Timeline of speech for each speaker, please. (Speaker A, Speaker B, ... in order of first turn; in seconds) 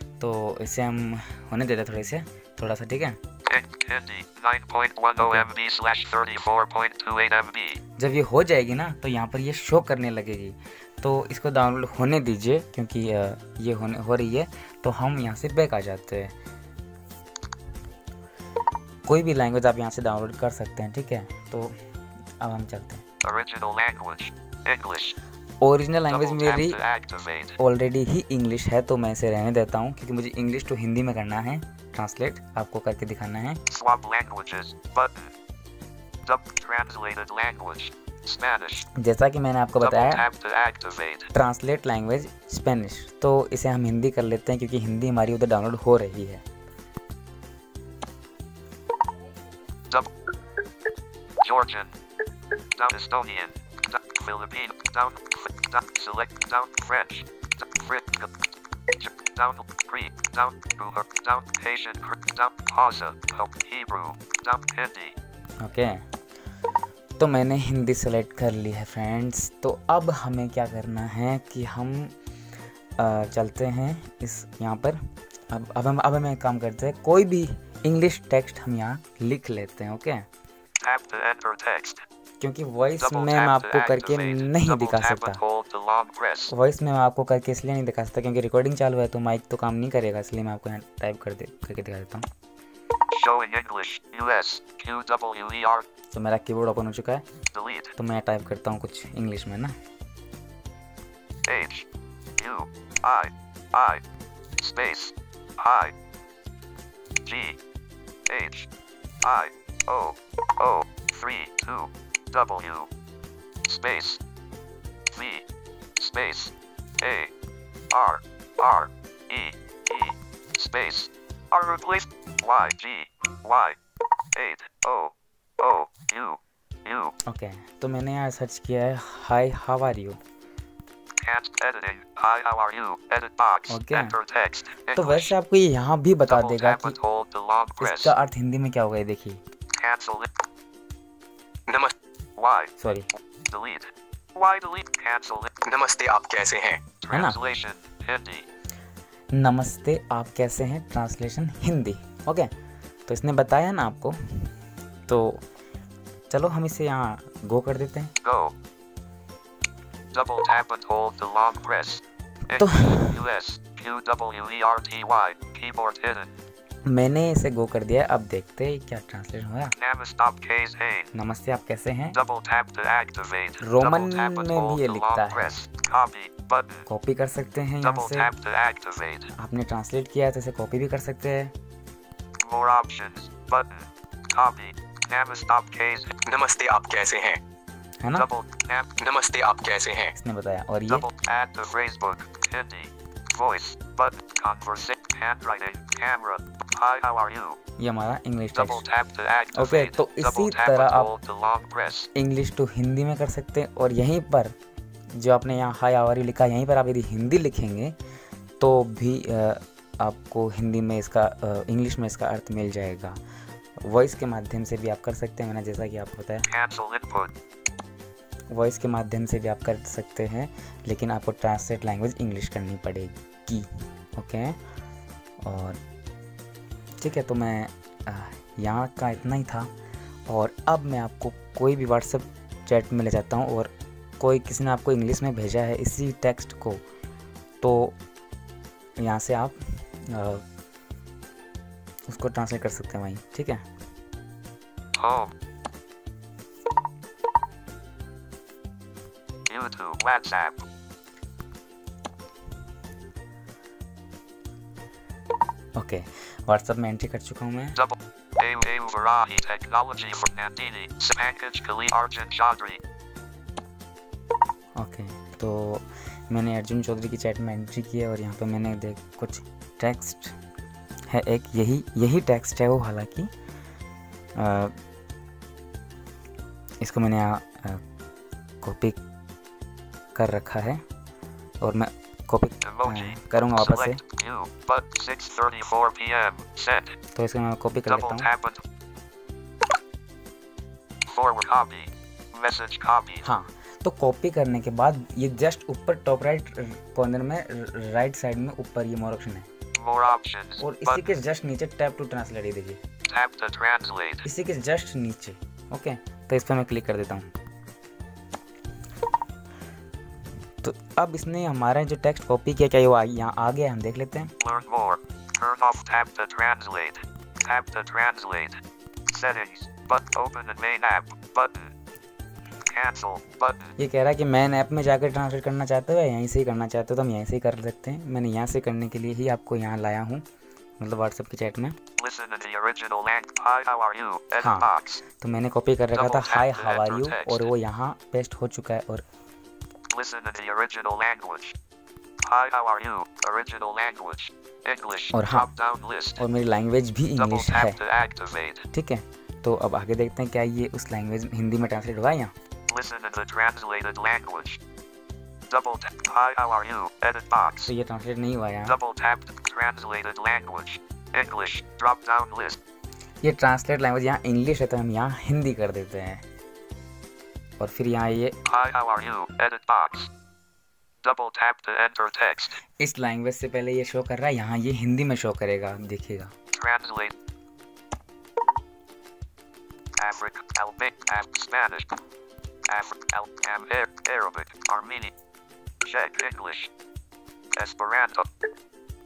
Speaker A: 0.2-3.2, 5.2-5.5, 8.0-16.4, 19.1-21.8, 22.4-23.0, 25.6-26.8, 27.6-33.6, 38.9-40.3, 41.3-46.4, 65.6-66.0, 67.2-72.2, 73.0-80.3, 82.4-85.4, 86.5-92.3, 96.1-97.2, 98.0-99.8, 127.3-130.2, 133.7-134.2, 135.0-137.0, 137.8-139.4, 142.8-143.1, 147.1-147.4, 149.3-152.5, 153.1-154.5, 155.1-155.4, 156.3-158.1, 162.6-163.2, 166.9-169.8, 171.1-172.2, 173.6-175.5, 176.9-178.3, 179.4-181.5, 188.0-188.3, 190.2-191.1, 197.8-198.8, 199.5-201.1, 202.2-204.5, 205.1-207.9, 208.6-213.2, 213.8-216.5, 218.5-224.6, 225.4-225.8, 227.0-229.7, 230.3-236.8, 237.6-238.0, 239.0-240.4, 242.1-243.7, 255.8-257.8, 264.8-270.4, 271.1-273.3, 274.4-274.8, 276.8-277.8, 278.6-279.0, 280.1-280.8, 281.6-284.0, 287.1-288.3, 293.2-299.5, 300.6-302.8, 304.2-307.3, 310.6-314.3, 323.8-330.2, 330.8-331.8, 334.4-339.0, 345.1-345.5, 346.2-347.8, 348.7-352.3, 357.7-358.8, 363.2-366.2, 367.6-368.4, 372.8-376.3
Speaker B: 3.5-7.8, 23.2-25.2, 26.1-27.6, 33.7-35.3, 36.3-38.9, 39.8-41.3, 51.4-52.0, 52.7-58.3, 59.0-65.2, 80.8-82.0, 83.0-86.5, 93.1-95.9, 97.5-98.0, 101.5-101.9, 102.4-104.0, 104.6-105.9, 107.2-107.6, 108.3-108.7, 109.2-112.9, 113.7-114.2, 115.1-115.4, 116.0-117.3, 117.9-123.8, 124.3-127.2, 131.2-135.3, 136.3-138.2, 139.7-140.3, 142.4-142.8, 143.5-145.5, 147.0-148.5, 158.2-158.5, 160.1-166.4, 169.8-171.1, 172.1-176.9, 177.8-179.3, 182.4-186.2, 188.1-188.9, 190.9-197.6, 198.5-202.1, 216.4-217.3, 244.9-245.3, 249.5-250.7, 257.8-262.8, 282.6-287.0, 287.9-288.6, 291.1-293.3, 299.8-301.2, 303.1-304.3, 314.4-321.7, 322.6-323.8, 332.0-335.0, 335.9-337.5, 339.9-341.6, 342.2-346.2, 347.2-348.7, 352.7-354.6, 355.5-357.7, 358.6-362.6, 368.4-370.1, 371.0-372.6, 376.5-377.1, 380.0-381.9, 382.7-385.1, 385.8-386.7, 387.6-388.3
Speaker C: 141.7-141.9, 145.7-146.8, 186.3-187.4, 189.0-190.2